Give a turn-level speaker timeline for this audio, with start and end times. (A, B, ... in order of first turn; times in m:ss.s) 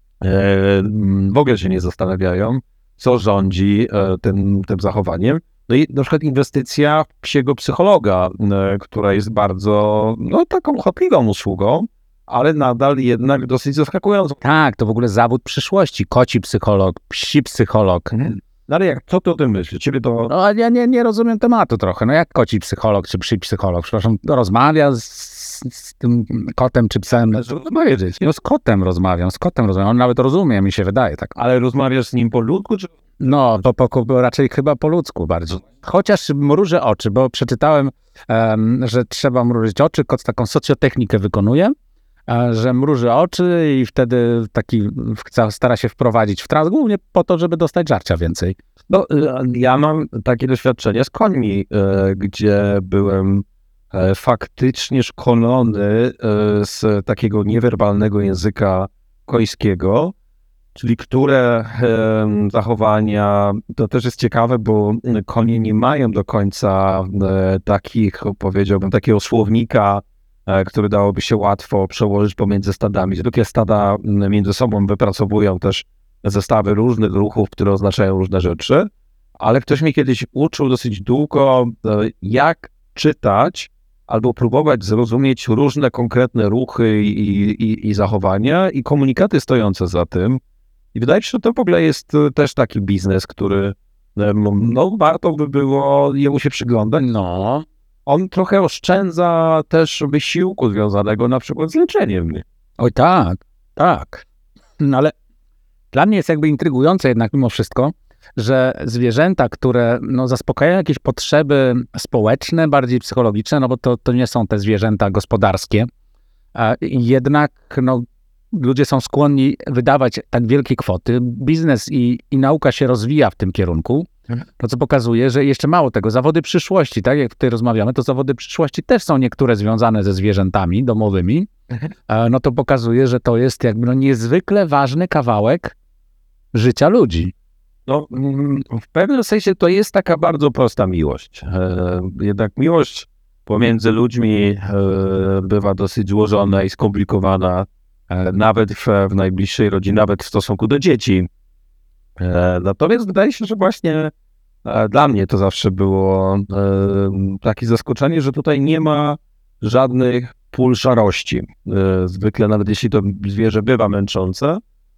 0:00.2-0:14.4 A
0:14.4-0:18.1 B
0:18.1-0:20.3 A
0:20.3-0:27.6 B
0:27.4-0:28.4 A
0:28.1-0:31.3 B
0:31.4-0:32.9 A
0:33.2-0:41.7 B
0:42.3-0:48.6 B
0:48.9-1:00.1 A
1:00.8-1:30.4 A
1:30.9-1:37.0 A
1:37.0-1:37.6 B
1:38.1-1:42.4 A
1:42.8-1:44.2 B
1:44.8-1:45.1 B
1:45.9-1:55.9 B
1:56.6-2:11.5 B
2:12.1-2:15.8 B
2:16.5-2:17.3 B
2:17.9-2:31.3 A
2:32.2-2:34.1 A
2:34.6-2:44.6 A